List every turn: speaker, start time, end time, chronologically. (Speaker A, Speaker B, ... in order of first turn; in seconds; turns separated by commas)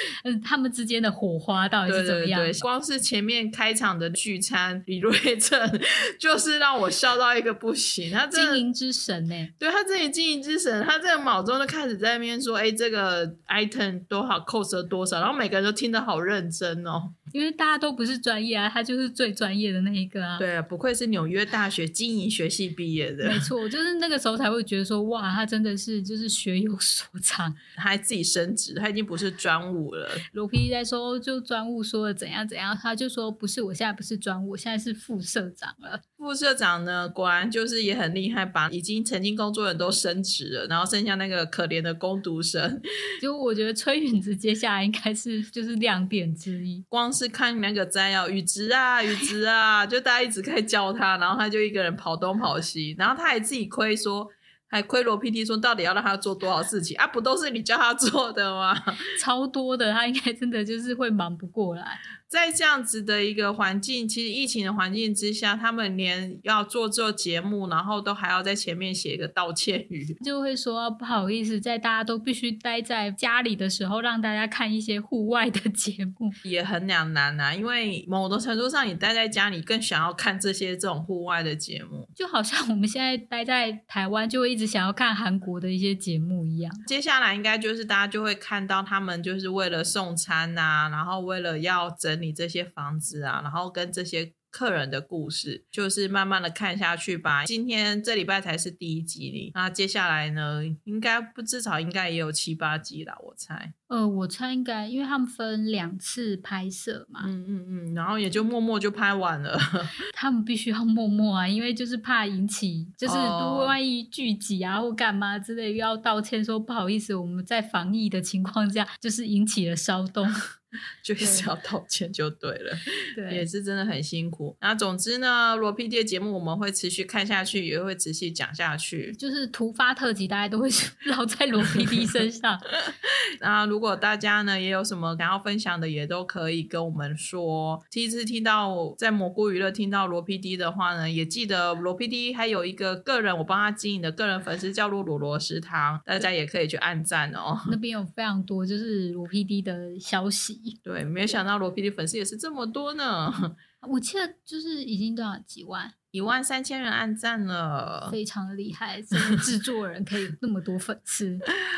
Speaker A: 0.2-2.6, Speaker B: 1.9-8.6, Speaker A: 8.3-9.5, Speaker B: 9.6-17.1, Speaker A: 17.3-20.4, Speaker B: 20.4-23.5, Speaker A: 23.2-27.6, Speaker B: 27.8-30.2, Speaker A: 30.3-36.0, Speaker B: 36.2-42.8, Speaker A: 43.2-46.8, Speaker B: 46.9-59.0, Speaker A: 59.1-62.0, Speaker B: 62.2-70.2, Speaker A: 70.2-76.4, Speaker B: 76.4-82.1, Speaker A: 82.2-86.8, Speaker B: 86.8-103.7, Speaker A: 103.9-107.3, Speaker B: 107.2-109.9, Speaker A: 110.1-120.4, Speaker B: 113.0-113.8, Speaker B: 121.0-129.2, Speaker A: 121.2-121.5, Speaker A: 123.1-123.5, Speaker A: 129.1-132.6, Speaker B: 132.8-147.8, Speaker A: 147.7-150.8, Speaker B: 150.8-153.6, Speaker A: 153.8-155.9, Speaker B: 156.1-158.2, Speaker A: 158.1-161.4